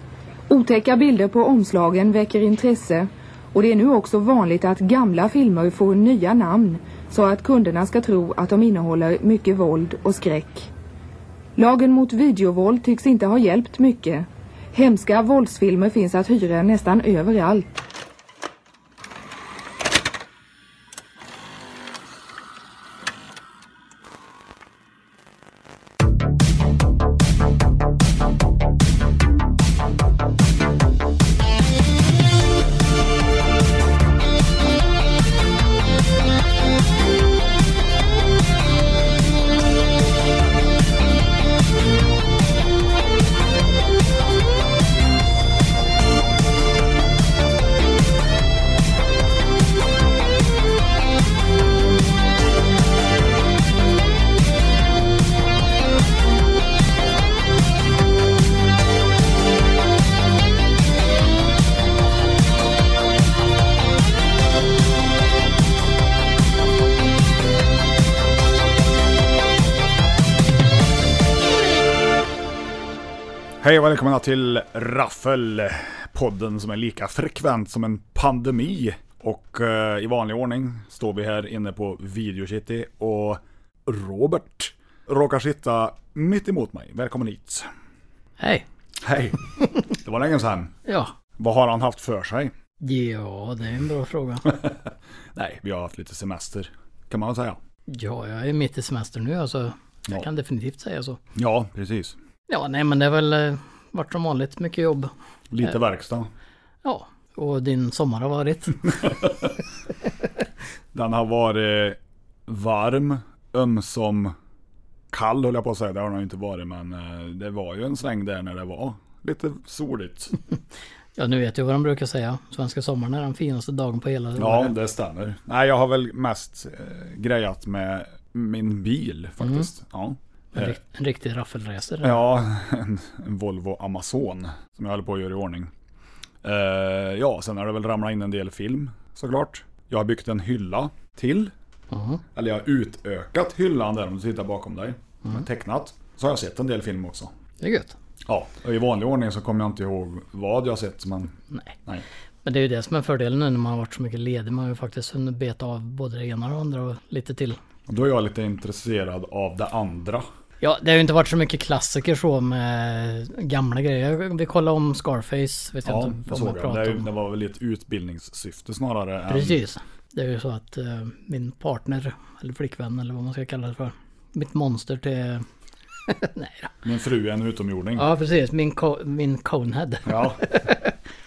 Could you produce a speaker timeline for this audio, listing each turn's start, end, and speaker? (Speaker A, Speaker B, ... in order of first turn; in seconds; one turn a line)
Speaker A: 0.5-10.7
Speaker A: 11.6-17.7
Speaker B: 73.6-87.7
Speaker C: 88.4-88.7
Speaker B: 89.0-89.4
Speaker B: 89.9-90.8
Speaker C: 90.9-91.1
Speaker B: 91.4-92.5
Speaker C: 92.8-94.7
Speaker B: 95.3-97.6
Speaker C: 97.9-101.2
Speaker B: 101.4-102.2
Speaker C: 102.5-105.1
Speaker B: 105.5-106.3
Speaker C: 106.8-109.3
Speaker B: 108.9-109.5
Speaker B: 110.9-114.3
Speaker B: 115.1-120.3
Speaker C: 121.2-124.8
Speaker B: 124.4-130.8
Speaker C: 129.4-129.7
Speaker C: 130.5-132.3
Speaker B: 132.0-135.7
Speaker B: 136.4-141.5
Speaker C: 141.9-142.2
Speaker B: 142.3-147.3
Speaker C: 147.6-147.9
Speaker B: 148.3-152.1
Speaker C: 152.4-157.6
Speaker B: 157.9-160.2
Speaker C: 160.6-167.1
Speaker B: 165.8-169.6
Speaker C: 169.3-175.5
Speaker C: 176.1-176.7
Speaker B: 176.8-178.1
Speaker C: 178.0-180.9
Speaker B: 180.1-180.4